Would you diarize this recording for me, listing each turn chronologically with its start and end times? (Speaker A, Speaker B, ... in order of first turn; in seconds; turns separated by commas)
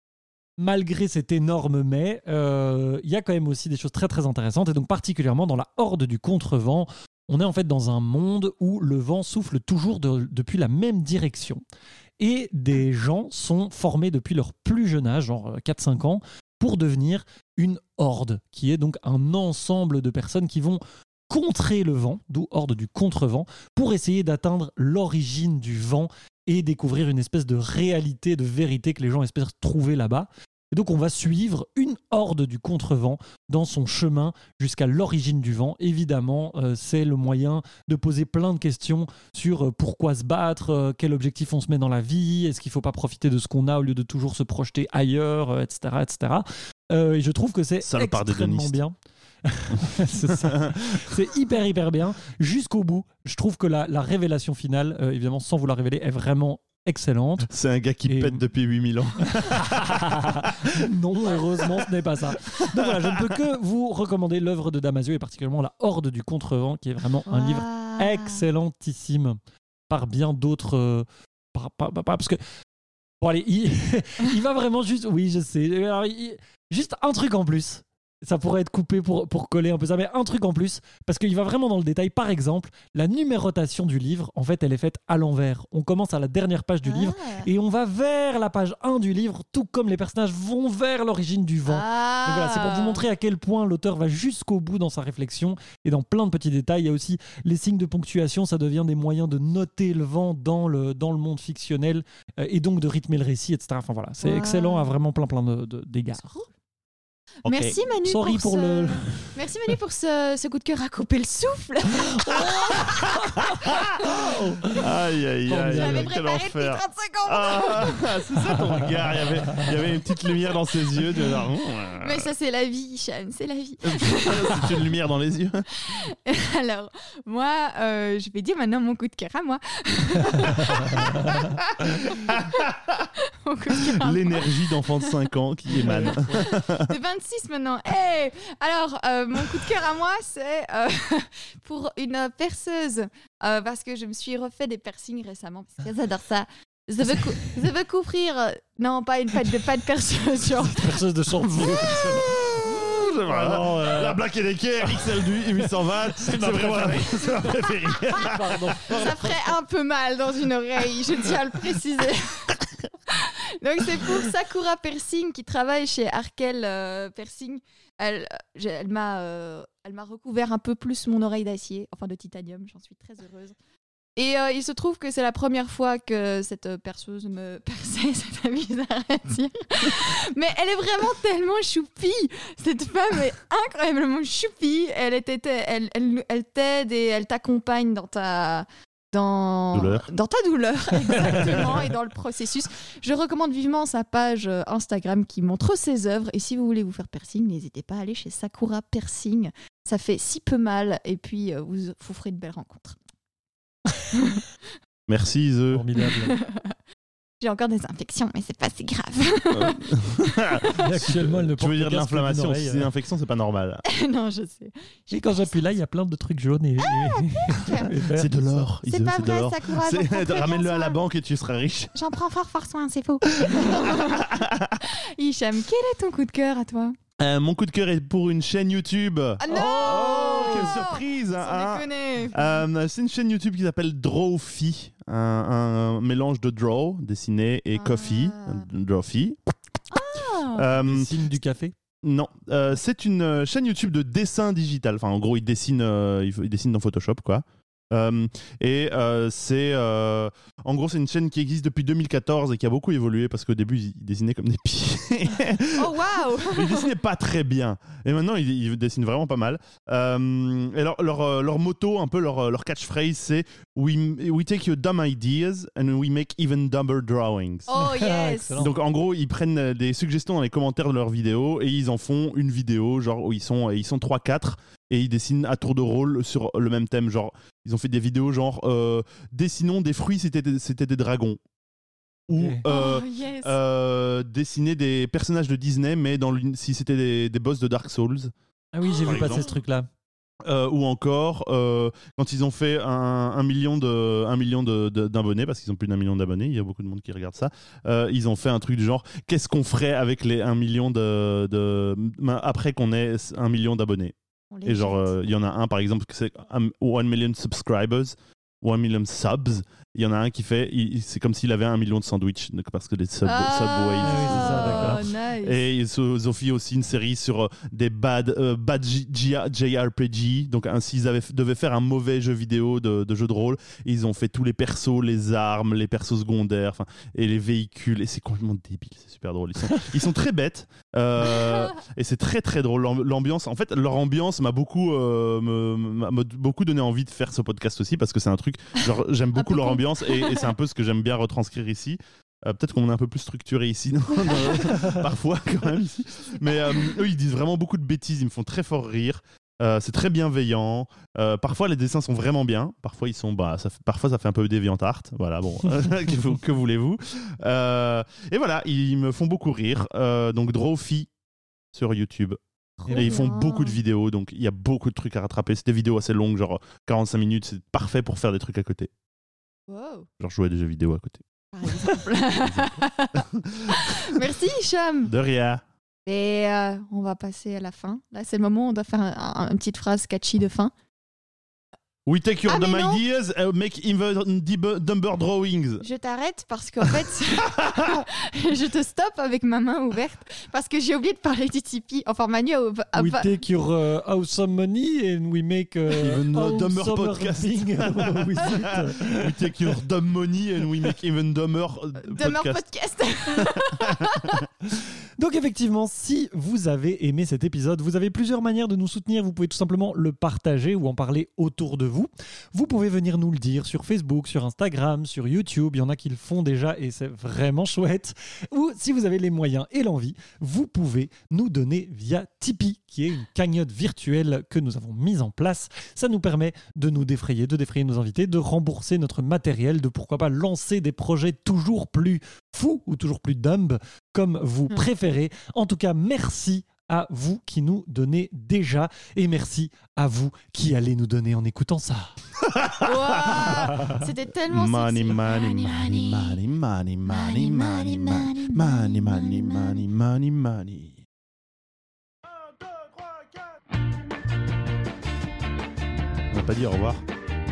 Speaker A: 0.6-11.6, Speaker A: 12.2-57.5, Speaker B: 47.8-48.8, Speaker B: 49.7-51.2, Speaker B: 57.5-60.8, Speaker A: 58.1-58.4, Speaker A: 59.3-72.4, Speaker B: 62.5-63.4, Speaker C: 67.3-68.4, Speaker A: 73.2-106.5, Speaker C: 86.8-87.5, Speaker C: 91.7-93.0, Speaker C: 104.2-104.9, Speaker B: 107.5-107.8, Speaker C: 107.5-114.3, Speaker A: 108.0-109.4, Speaker A: 112.0-114.8, Speaker B: 112.4-114.0, Speaker B: 114.8-122.3, Speaker A: 115.5-116.1, Speaker C: 115.7-118.3, Speaker C: 122.0-124.9, Speaker B: 123.8-125.7, Speaker C: 125.8-135.2, Speaker A: 130.9-131.3, Speaker B: 131.8-132.9, Speaker B: 133.8-136.9, Speaker C: 135.8-151.0, Speaker A: 150.5-154.2, Speaker B: 152.4-158.8, Speaker A: 156.1-159.6, Speaker C: 158.9-173.6, Speaker C: 174.2-203.0, Speaker B: 189.7-190.1, Speaker C: 204.1-204.5, Speaker B: 205.1-205.9, Speaker A: 205.7-206.4, Speaker C: 206.0-206.8, Speaker C: 207.4-210.9, Speaker B: 209.5-213.8, Speaker A: 210.8-212.9, Speaker C: 213.9-215.8, Speaker A: 215.1-218.4, Speaker C: 216.8-218.1, Speaker B: 218.1-222.0, Speaker C: 218.8-221.0, Speaker C: 221.9-227.0, Speaker B: 223.4-224.8, Speaker B: 227.2-239.4, Speaker C: 229.4-232.6, Speaker C: 237.7-238.7, Speaker C: 239.9-240.7, Speaker B: 240.5-241.1, Speaker A: 240.7-241.8, Speaker B: 242.0-267.7, Speaker C: 255.7-256.9, Speaker C: 267.7-268.7, Speaker A: 267.7-268.7, Speaker B: 268.6-281.4, Speaker B: 282.3-288.3, Speaker A: 282.4-282.6, Speaker C: 282.7-283.6, Speaker A: 288.7-289.9, Speaker C: 288.8-289.5, Speaker B: 289.0-289.5, Speaker B: 290.4-361.1, Speaker C: 304.5-305.2, Speaker C: 313.2-315.7, Speaker A: 314.0-315.0, Speaker C: 339.4-340.5, Speaker C: 344.3-344.6, Speaker A: 344.7-345.0, Speaker B: 361.7-368.9, Speaker C: 362.8-363.8, Speaker A: 362.9-363.3, Speaker C: 369.7-370.1, Speaker B: 370.2-371.2, Speaker C: 371.5-375.1, Speaker B: 371.9-374.2, Speaker B: 375.1-375.6, Speaker C: 376.1-380.7, Speaker B: 382.1-385.8, Speaker C: 382.5-383.0, Speaker C: 385.8-393.3, Speaker B: 386.9-388.1, Speaker A: 392.9-399.5, Speaker B: 396.0-402.6, Speaker C: 402.0-404.4, Speaker B: 403.3-404.4, Speaker A: 405.2-442.1, Speaker B: 442.4-443.8, Speaker C: 442.8-446.4, Speaker B: 444.5-451.1, Speaker C: 447.1-449.8, Speaker B: 452.6-453.2, Speaker B: 456.3-457.0